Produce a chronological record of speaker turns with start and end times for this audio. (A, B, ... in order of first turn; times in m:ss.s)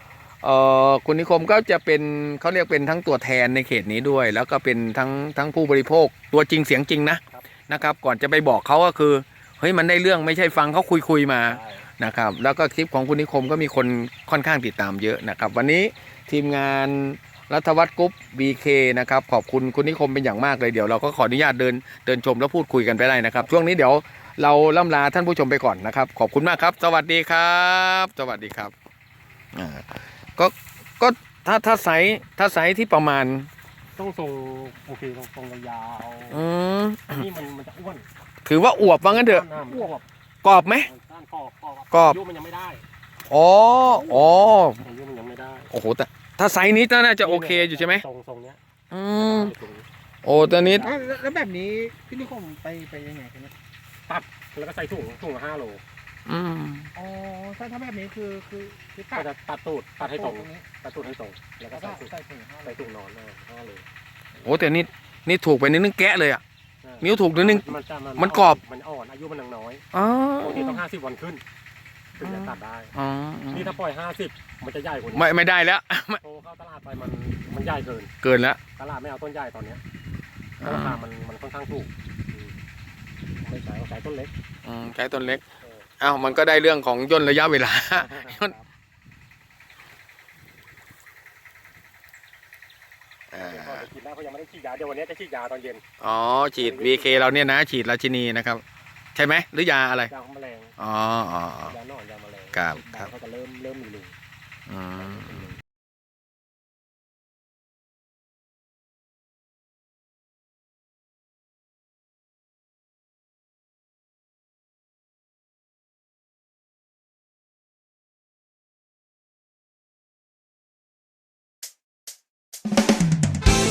0:00.4-0:28.7 A
0:11.4-0:11.9 B
0:29.5-0:33.5 A
0:34.0-0:36.4 B
0:36.3-0:37.2 A
0:37.1-0:38.0 B
0:38.4-0:39.4 A
0:38.9-0:40.0 B
0:40.4-0:40.9 A
0:40.8-0:42.8 B
0:41.9-0:42.2 A
0:43.3-0:44.8 A
0:44.8-0:45.7 B
0:45.7-0:48.0 A
0:47.2-0:48.6 B
0:48.9-0:49.5 A
0:49.2-0:51.0 B
0:50.2-0:50.9 A
0:50.8-0:53.5 C
0:54.1-0:55.8 B
0:56.2-0:56.9 A
0:56.9-0:59.2 C
0:59.1-1:03.8 B
1:00.0-1:00.6 C
1:01.7-1:02.8 C
1:04.4-1:06.4 A
1:06.8-1:09.8 B
1:07.0-1:07.6 A
1:08.2-1:08.6 A
1:09.9-1:10.8 A
1:10.4-1:11.4 B
1:12.2-1:12.9 B
1:12.2-1:13.7 A
1:13.5-1:15.3 B
1:15.1-1:16.2 A
1:16.2-1:18.1 B
1:18.2-1:18.6 A
1:18.8-1:19.8 B
1:20.6-1:21.0 A
1:20.6-1:22.5 B
1:23.4-1:24.3 B
1:24.6-1:25.4 A
1:26.0-1:28.5 A
1:28.0-1:28.6 B
1:33.3-1:33.8 A
1:33.4-1:35.8 B
1:36.0-1:38.6 A
1:36.6-1:37.4 B
1:39.1-1:40.1 A
1:40.1-1:40.7 B
1:40.8-1:41.7 A
1:41.6-1:44.1 B
1:42.5-1:43.1 A
1:44.7-1:45.4 A
1:45.0-1:45.5 B